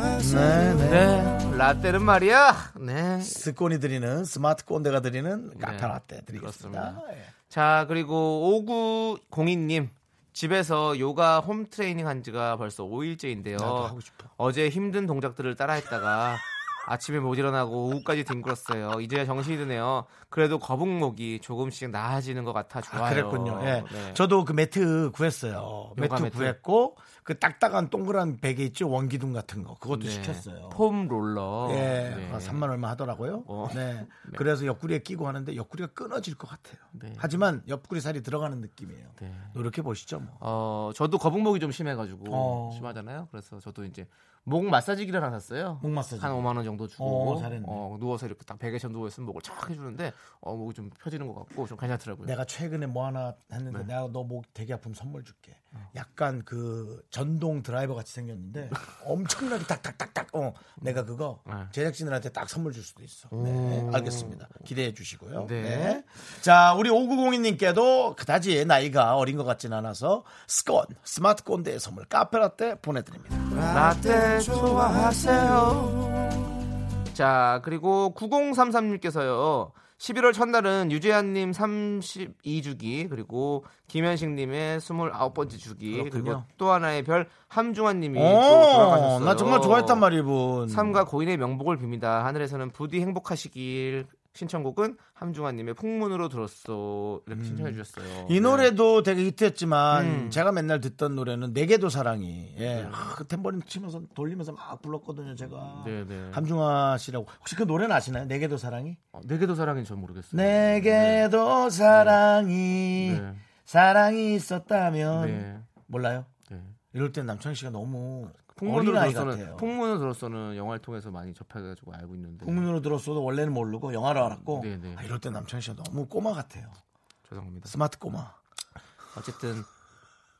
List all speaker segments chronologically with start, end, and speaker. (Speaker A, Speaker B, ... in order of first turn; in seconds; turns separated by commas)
Speaker A: 0.1-1.3, Speaker B: 0.6-3.4, Speaker A: 3.2-7.3, Speaker B: 5.5-24.2, Speaker A: 13.6-14.3, Speaker A: 22.9-30.8, Speaker B: 26.0-26.6, Speaker B: 29.9-32.6, Speaker A: 31.6-40.4, Speaker B: 33.5-34.4, Speaker B: 36.9-37.3, Speaker B: 39.2-39.5, Speaker B: 40.4-52.3, Speaker A: 42.3-42.9, Speaker A: 45.8-47.8, Speaker A: 52.2-73.6, Speaker B: 63.3-64.6, Speaker B: 65.4-66.0, Speaker B: 73.6-76.4, Speaker B: 77.1-90.0, Speaker A: 85.9-86.4, Speaker A: 88.1-91.0, Speaker B: 90.7-98.7, Speaker A: 97.3-109.0, Speaker B: 99.9-100.4, Speaker B: 102.7-103.1, Speaker B: 105.7-106.4, Speaker B: 109.1-111.3, Speaker A: 110.3-116.3, Speaker B: 111.9-112.2, Speaker B: 113.0-113.4, Speaker B: 115.1-115.7, Speaker B: 116.5-116.7, Speaker A: 116.9-119.7, Speaker B: 118.5-122.7, Speaker A: 122.4-126.8, Speaker B: 124.4-125.0, Speaker B: 127.3-127.7, Speaker A: 127.7-128.3, Speaker B: 129.1-129.7